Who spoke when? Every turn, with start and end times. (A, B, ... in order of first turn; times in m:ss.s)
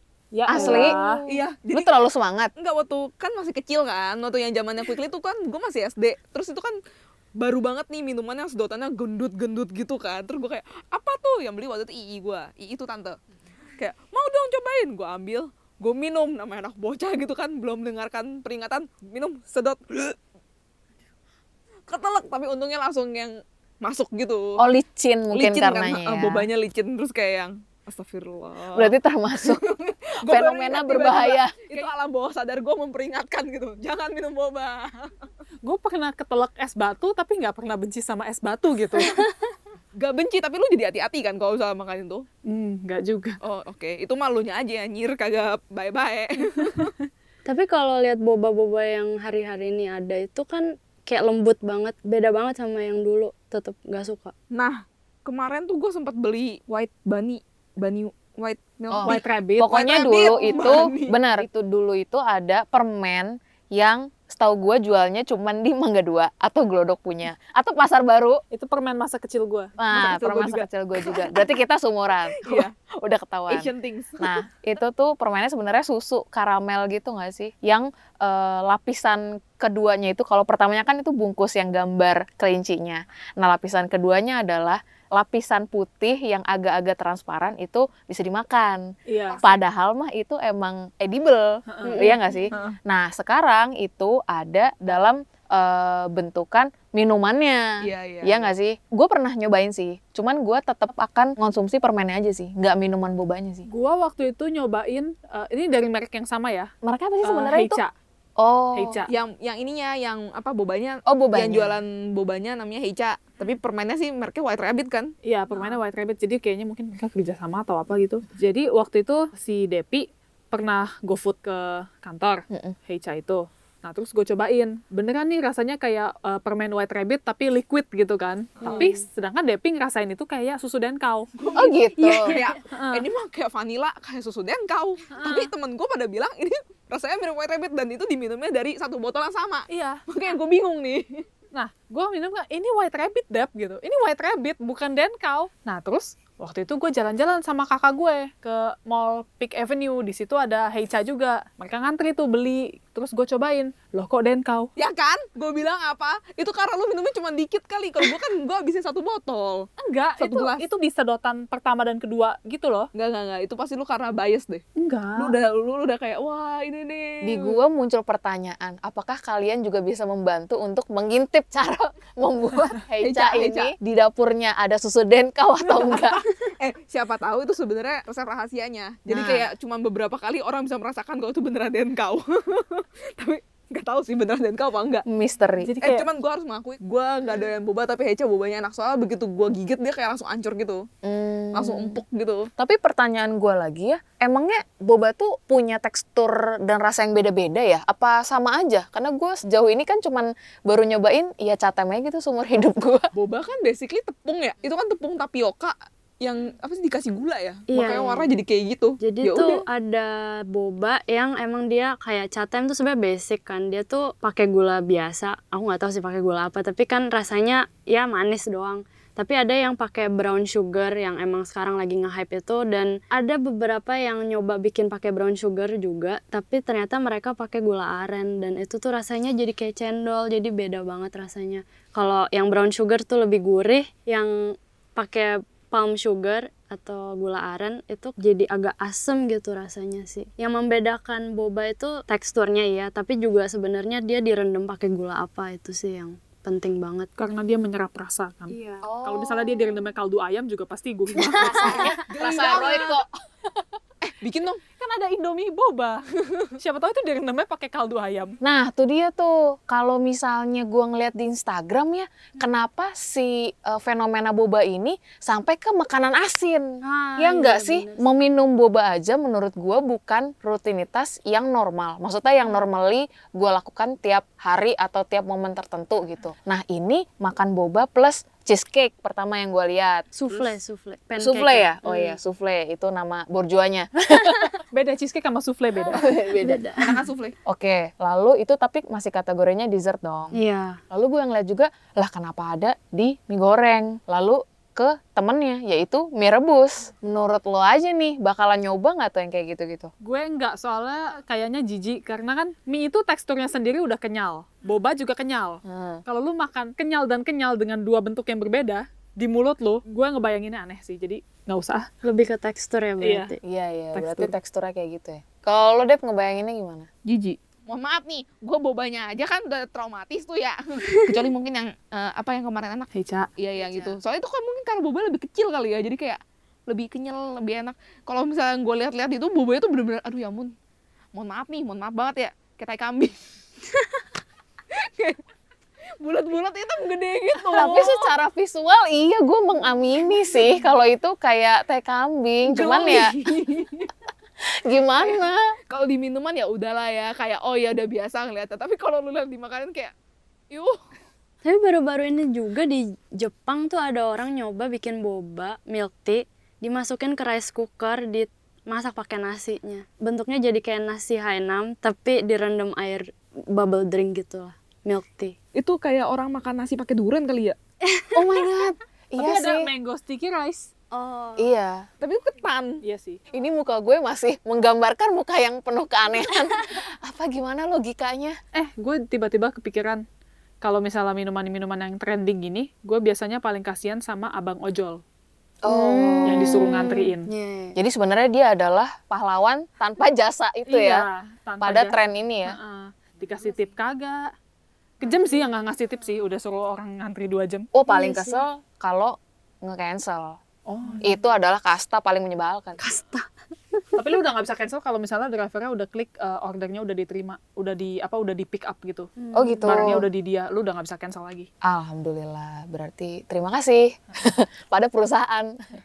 0:00.3-0:01.2 A
0:00.5-0:02.5 B
0:00.5-0:02.0 C
0:02.6-0:06.8 C
0:07.4-0:13.2 C
0:13.8-0:20.2 C
0:21.9-0:24.6 C
0:24.6-0:26.5 B
0:25.3-0:35.3 C
0:28.7-0:29.6 B
0:30.2-0:31.8 B
0:35.6-0:39.2 A
0:39.0-0:39.3 D
0:40.0-0:42.2 C
0:42.4-0:43.4 A
0:43.4-0:46.9 C
0:47.4-0:54.3 D
0:54.5-1:01.4 C
0:58.9-1:08.4 B
0:59.0-1:00.8 A
1:08.5-1:09.7 A
1:09.8-1:28.9 B
1:09.9-1:11.4 C
1:12.3-1:12.7 C
1:13.5-1:14.4 C
1:29.1-1:29.4 A
1:29.3-1:29.6 C
1:29.4-1:43.7 B
1:31.7-1:32.0 A
1:31.8-1:32.4 D
1:37.8-1:38.5 C
1:43.7-1:46.7 A
1:46.8-1:47.8 B
1:47.2-1:47.9 A
1:48.4-1:49.0 B
1:48.7-1:49.1 A
1:49.1-1:55.7 C
1:51.1-1:51.8 B
1:55.2-2:11.3 A
2:02.5-2:02.8 B
2:08.6-2:09.0 D
2:11.4-2:21.2 C
2:11.6-2:12.4 B
2:12.0-2:12.5 D
2:12.7-2:13.0 A
2:15.1-2:15.5 A
2:19.7-2:20.0 A
2:21.5-2:34.7 A
2:34.8-2:40.6 C
2:39.8-2:42.9 A
2:42.9-2:47.6 C
2:44.8-2:45.3 A
2:47.2-2:56.2 B
2:53.0-2:53.7 C
2:56.6-3:05.0 C
2:59.1-2:59.5 B
3:05.0-3:05.7 B
3:05.6-3:06.0 A
3:05.8-3:10.9 C
3:11.0-3:12.0 B
3:11.5-3:12.5 C
3:12.6-3:23.1 B
3:23.1-3:29.6 C
3:27.7-3:28.3 D
3:29.0-4:07.1 D
4:07.2-4:13.0 A
4:08.5-4:08.9 D
4:08.8-4:09.8 B
4:11.2-4:11.9 D
4:11.4-4:13.0 B
4:11.7-4:13.0 C
4:14.0-4:14.6 C
4:14.8-4:18.4 A
4:18.4-4:40.5 B
4:26.8-4:28.0 D
4:40.2-4:42.2 D
4:41.2-4:44.4 B
4:44.2-4:46.1 A
4:45.9-4:46.6 B
4:46.3-4:46.9 D
4:46.8-4:47.3 C
4:47.4-4:50.3 B
4:50.3-4:50.8 D
4:50.9-4:59.9 B
5:00.0-5:11.9 A
5:05.6-5:06.0 B
5:12.0-5:13.4 D
5:13.0-5:13.3 A
5:13.4-5:16.9 B
5:13.9-5:14.3 A
5:17.0-5:30.5 C
5:22.9-5:23.3 A
5:23.6-5:24.0 B
5:31.1-5:33.2 C
5:34.7-5:35.2 C
5:36.0-5:38.1 C
5:37.5-5:43.2 B
5:42.4-5:43.9 C
5:44.4-5:45.5 B
5:45.0-5:49.9 C
5:50.5-5:50.8 C
5:51.4-6:05.3 D
6:05.5-6:07.6 C
6:07.8-6:08.2 D
6:08.1-6:09.7 B
6:09.2-6:10.7 A
6:10.9-6:11.5 D
6:11.4-6:11.9 B
6:12.0-6:12.8 C
6:12.8-6:13.2 A
6:13.3-6:18.4 B
6:18.5-6:20.0 A
6:20.6-6:25.0 A
6:25.6-6:27.0 B
6:25.7-6:26.7 D
6:26.2-6:27.3 A
6:27.2-6:27.8 D
6:27.8-6:31.0 B
6:30.7-6:34.3 A
6:31.6-6:32.6 B
6:35.0-6:37.7 A
6:37.7-6:40.4 B
6:37.9-6:38.4 D
6:40.7-6:41.1 A
6:41.0-6:42.8 B
6:42.8-6:43.9 D
6:43.9-6:49.1 A
6:49.2-6:49.9 D
6:49.3-6:50.1 B
6:49.6-6:51.5 A
6:51.6-6:55.6 B